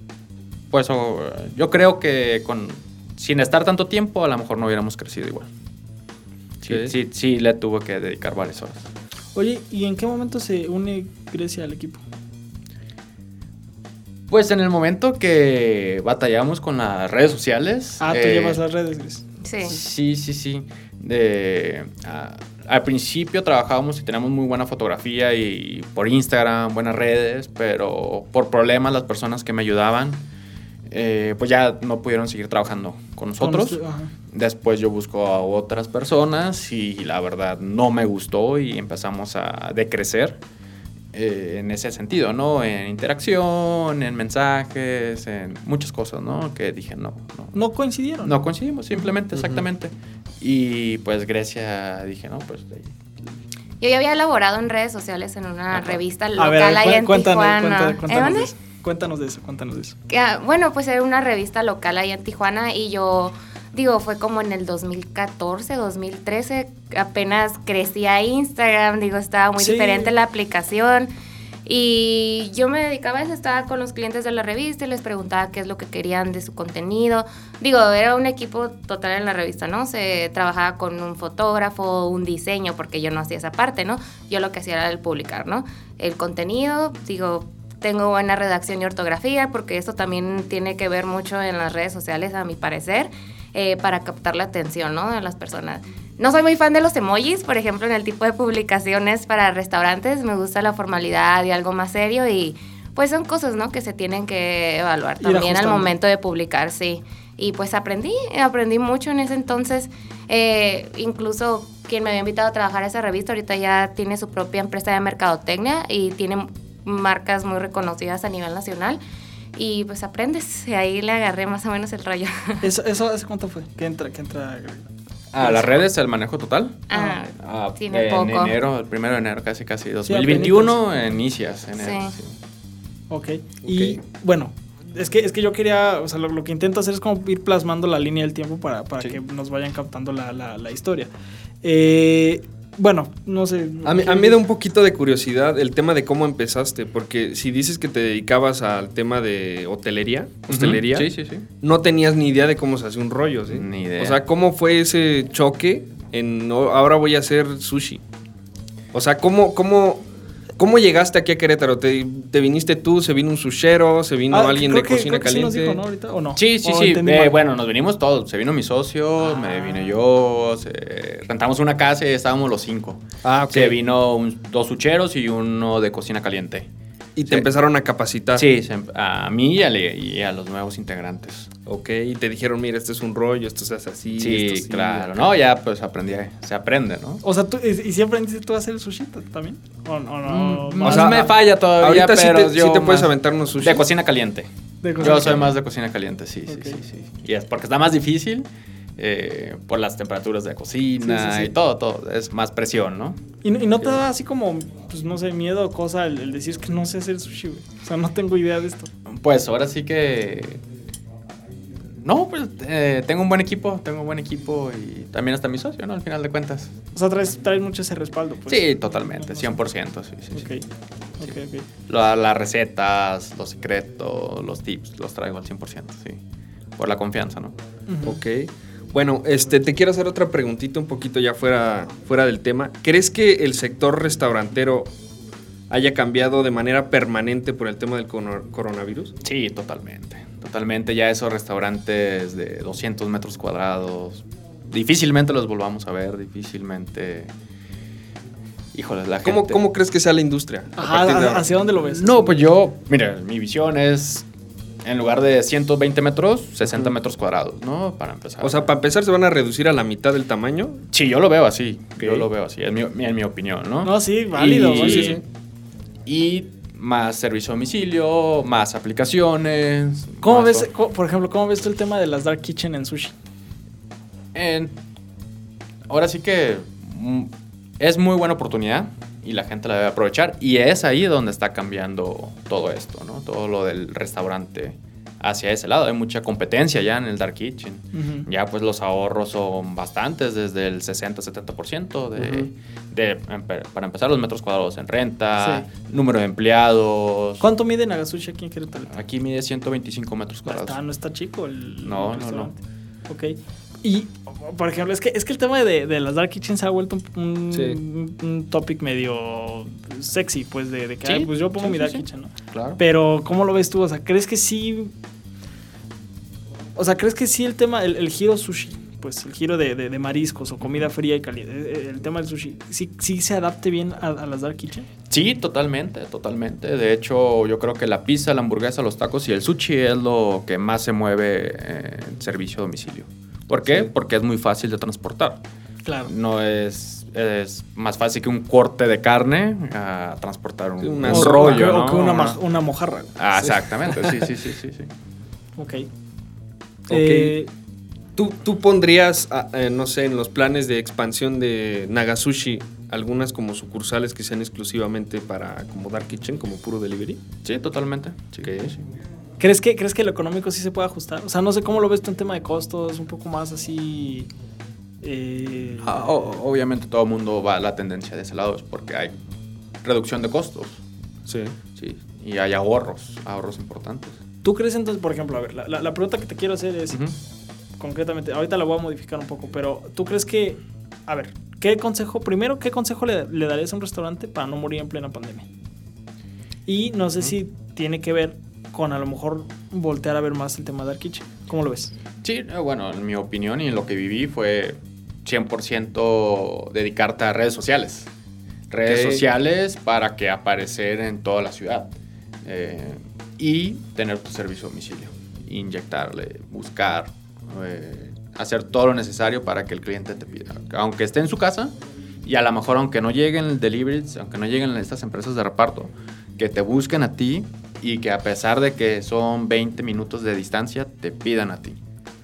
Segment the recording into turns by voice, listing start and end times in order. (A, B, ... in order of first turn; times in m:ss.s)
0:00.7-0:05.5 A
0:06.6-0:08.8 A
0:06.7-0:06.9 B
0:09.4-0:12.0 C
0:14.3-0:18.6 A
0:18.0-0:19.7 C
0:19.4-0:19.8 D
0:19.6-0:30.2 A
0:30.9-0:33.8 A
0:33.4-0:34.1 C
0:34.3-0:40.4 A
0:41.1-0:47.6 A
0:47.5-0:48.4 C
0:48.2-0:52.9 A
0:53.8-0:58.5 D
0:55.7-0:56.0 A
0:56.4-1:00.0 C
1:00.1-1:11.1 D
1:09.6-1:10.1 C
1:11.7-1:59.0 D
1:45.2-1:45.9 C
1:59.6-2:02.6 D
2:02.6-2:04.8 C
2:05.3-2:06.8 A
2:05.4-2:05.7 C
2:06.9-2:08.6 D
2:06.9-2:07.2 C
2:07.4-2:12.4 A
2:10.0-2:10.8 C
2:11.8-2:12.2 D
2:13.1-2:21.1 C
2:13.6-2:14.0 B
2:21.6-2:24.4 C
2:23.8-2:38.0 B
2:30.5-2:31.5 A
2:33.5-2:34.2 A
2:38.9-2:40.0 B
2:40.6-2:45.8 B
2:44.3-2:47.4 C
2:46.4-2:56.7 A
2:49.2-2:50.0 C
2:53.2-2:53.8 B
2:57.2-2:58.5 B
2:58.4-3:01.5 A
3:01.7-3:05.3 B
3:04.2-3:07.2 A
3:07.2-3:11.3 C
3:10.2-3:14.5 A
3:10.8-3:13.9 B
3:14.8-3:15.5 C
3:15.0-3:23.2 A
3:15.1-3:15.4 B
3:16.5-3:16.8 C
3:21.0-3:21.6 C
3:23.4-3:28.9 C
3:29.1-3:30.6 A
3:32.0-3:36.8 A
3:36.9-3:39.6 C
3:38.5-3:40.5 A
3:40.3-3:40.6 C
3:41.2-3:41.7 C
3:41.9-3:46.2 A
3:46.8-3:47.6 A
3:47.9-3:48.2 C
3:48.0-3:54.9 B
3:55.7-3:59.2 B
3:59.2-4:07.3 A
4:08.7-4:09.6 A
4:09.2-4:11.5 B
4:10.8-4:12.4 C
4:11.8-4:14.3 A
4:14.8-4:18.7 A
4:18.4-4:20.8 B
4:20.9-4:25.2 A
4:22.0-4:22.3 B
4:23.8-4:25.2 C
4:24.4-4:25.2 B
4:26.1-4:30.7 A
4:30.2-4:33.2 C
4:34.3-4:34.8 A
4:35.9-4:57.4 A
4:47.9-4:48.3 C
4:52.2-4:52.5 B
4:55.4-4:55.7 C
4:57.4-4:59.0 C
4:58.9-5:00.8 A
5:00.5-5:14.9 C
5:01.8-5:02.5 A
5:07.5-5:07.8 B
5:11.0-5:12.8 A
5:16.8-5:24.9 C
5:25.1-5:35.4 A
5:35.8-5:36.1 C
5:36.0-5:42.4 A
5:40.8-5:41.7 B
5:41.0-5:43.1 C
5:43.2-5:44.9 A
5:43.4-5:44.2 B
5:45.6-5:45.9 C
5:46.9-5:47.4 B
5:46.9-5:47.5 C
5:48.2-5:57.2 B
5:57.4-5:58.8 A
5:58.4-5:58.7 B
5:59.4-6:04.3 C
6:05.0-6:06.1 C
6:05.8-6:09.2 A
6:09.8-6:10.8 A
6:11.3-6:11.6 B
6:11.8-6:14.2 A
6:14.4-6:17.0 C
6:17.8-6:25.5 C
6:26.7-6:31.9 C
6:32.2-6:38.1 A
6:38.7-6:41.9 A
6:38.9-6:39.2 B
6:42.4-7:01.8 A